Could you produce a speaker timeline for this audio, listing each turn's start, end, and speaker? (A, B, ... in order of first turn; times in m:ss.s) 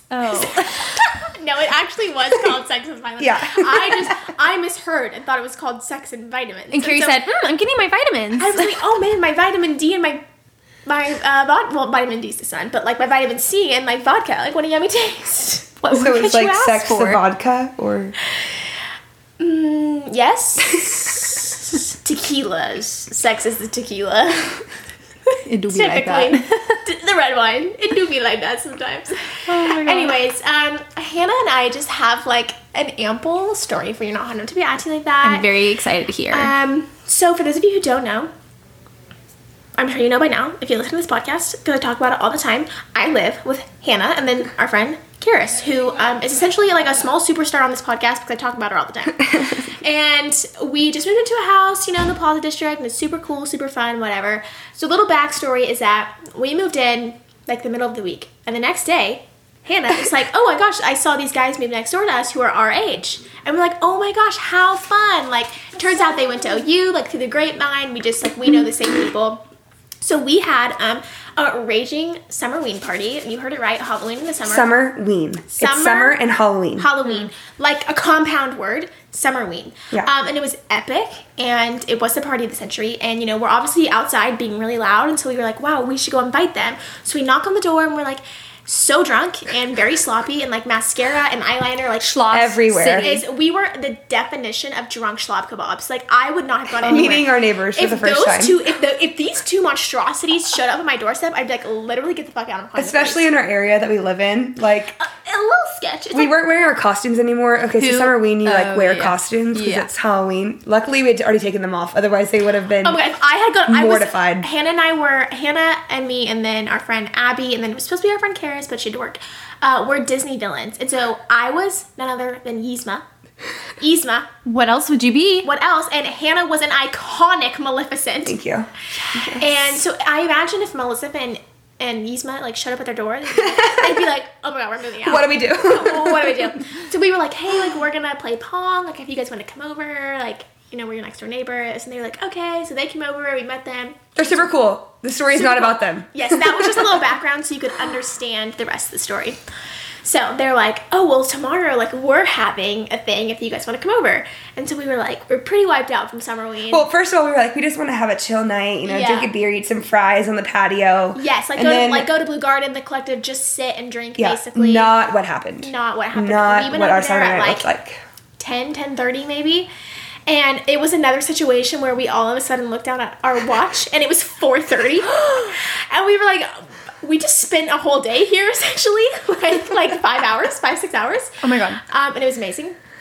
0:00.1-0:01.1 A
0:00.4-0:07.2 B
0:03.2-0:04.3 C
0:06.7-0:08.8 A
0:08.4-0:10.2 B
0:10.9-0:16.0 B
0:15.8-0:17.2 A
0:15.9-0:18.2 C
0:19.4-0:24.6 B
0:25.5-0:26.5 A
0:25.7-0:35.5 B
0:29.5-0:30.2 A
0:35.2-0:36.5 A
0:36.3-0:38.3 B
0:39.8-1:09.4 B
1:10.0-1:14.7 B
1:14.4-1:16.9 C
1:15.5-1:16.2 B
1:16.8-1:32.2 B
1:17.0-1:17.3 A
1:32.0-1:33.2 A
1:32.3-1:33.2 C
1:33.0-1:43.3 B
1:36.8-1:38.6 C
1:42.8-1:45.0 C
1:45.0-1:46.4 B
1:46.1-1:53.0 C
1:47.8-1:49.9 A
1:52.8-2:03.0 B
1:53.7-1:54.5 C
2:03.8-2:04.3 B
2:04.4-2:05.5 A
2:05.4-2:08.4 B
2:08.3-2:08.7 C
2:09.1-2:09.8 A
2:09.2-2:24.1 B
2:13.4-2:14.0 C
2:15.0-2:16.5 C
2:24.2-2:27.0 C
2:25.3-2:29.4 B
2:30.0-2:36.9 B
2:36.7-2:42.1 C
2:38.8-2:39.3 B
2:41.1-2:44.9 B
2:44.2-2:48.0 C
2:45.6-2:47.7 B
2:48.4-2:49.7 B
2:50.3-3:02.8 B
3:01.4-3:01.8 A